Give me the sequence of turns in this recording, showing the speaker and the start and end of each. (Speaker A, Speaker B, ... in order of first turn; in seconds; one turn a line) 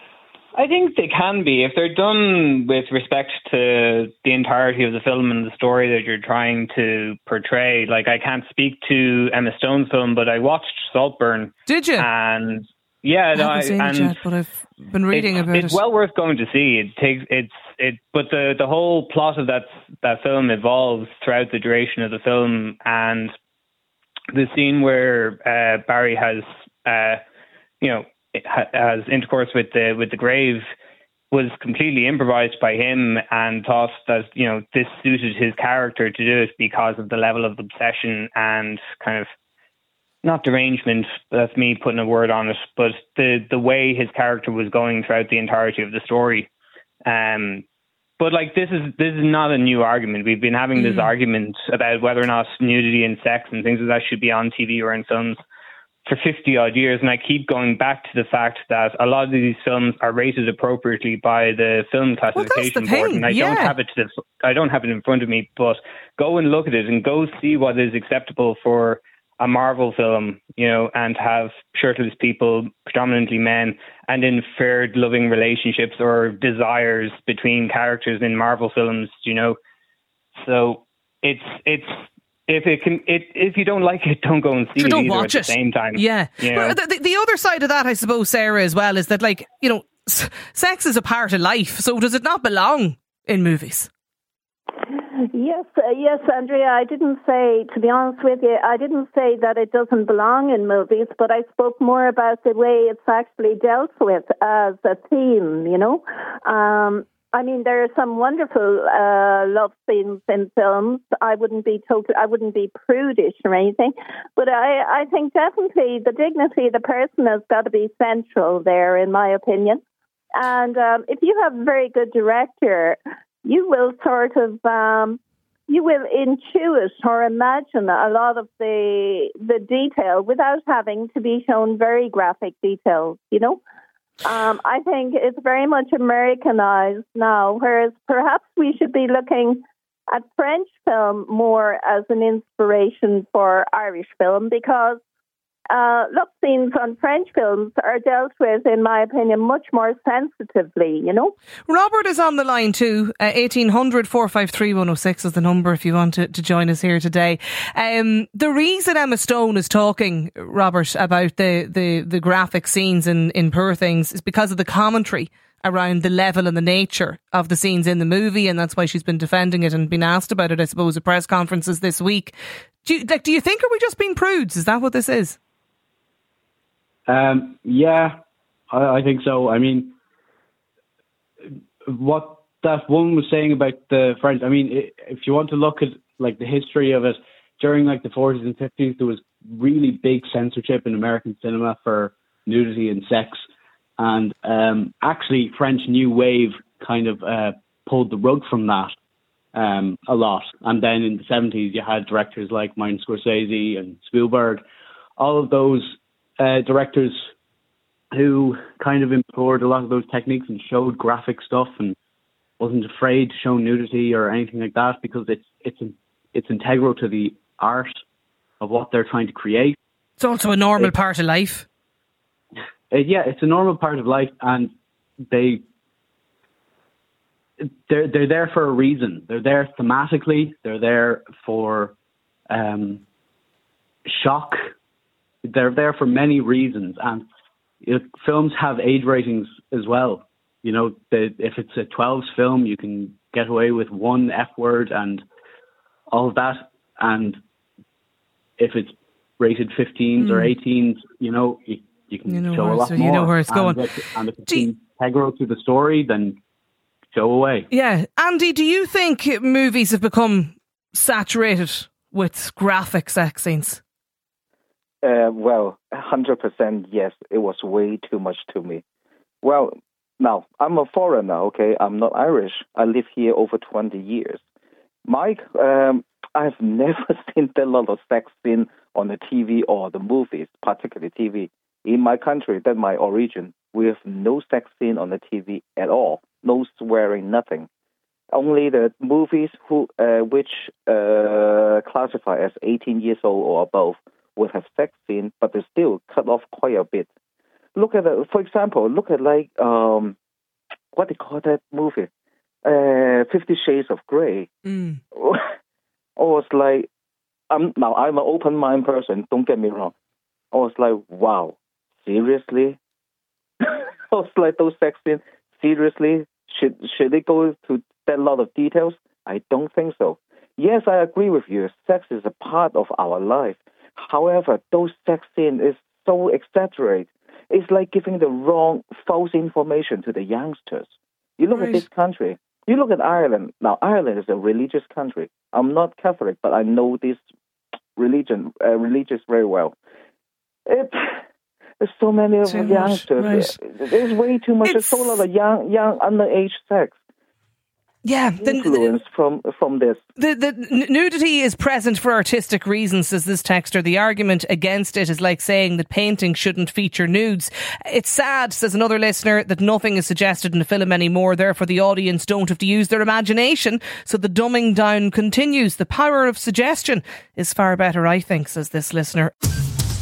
Speaker A: 0.6-14.2
Speaker B: 11.7-12.1
Speaker B: 13.3-15.8
Speaker A: 15.1-23.3
Speaker A: 24.3-27.2
Speaker A: 27.8-30.6
Speaker A: 31.3-39.3
Speaker A: 40.2-46.5
Speaker A: 47.0-47.6
Speaker A: 48.2-55.4
Speaker B: 50.8-51.1
Speaker A: 56.0-79.5
Speaker B: 62.3-63.7
Speaker A: 80.4-81.9
Speaker A: 82.5-86.7
Speaker B: 84.8-93.9
Speaker C: 95.2-119.8
Speaker C: 120.4-133.6
Speaker C: 134.2-145.0
Speaker C: 145.7-151.3
Speaker B: 151.7-172.3
Speaker B: 172.8-175.4
Speaker D: 177.1-178.2
Speaker D: 178.7-179.9
Speaker D: 181.8-193.4
Speaker D: 194.0-198.9
Speaker D: 199.5-204.6
Speaker D: 205.2-207.1
Speaker D: 208.1-211.9
Speaker D: 212.6-218.0
Speaker D: 218.6-219.8
Speaker B: 220.2-221.6
Speaker D: 222.9-224.7
Speaker D: 225.3-225.6
Speaker D: 227.6-231.9
Speaker D: 232.5-233.0
Speaker D: 234.1-234.6
Speaker D: 235.4-237.2
Speaker D: 237.8-245.2
Speaker D: 246.1-247.4
Speaker D: 248.6-256.4
Speaker B: 250.2-250.5
Speaker B: 252.3-253.8
Speaker D: 257.1-257.7
Speaker B: 257.7-263.8
Speaker E: 265.0-268.8
Speaker E: 269.4-274.4
Speaker E: 275.0-287.7
Speaker E: 288.3-297.1
Speaker E: 297.8-300.1
Speaker E: 300.9-302.1
Speaker E: 302.6-304.5
Speaker B: 304.7-305.0
Speaker E: 305.1-305.4
Speaker E: 306.2-306.9
Speaker E: 307.5-309.9
Speaker E: 310.5-312.8
Speaker E: 313.6-337.2
Speaker B: 331.5-331.8
Speaker E: 337.9-339.7
Speaker E: 340.6-341.2
Speaker E: 341.8-346.9
Speaker B: 342.4-343.5
Speaker B: 344.6-345.2
Speaker B: 348.0-349.0
Speaker E: 348.4-350.0
Speaker B: 350.2-369.3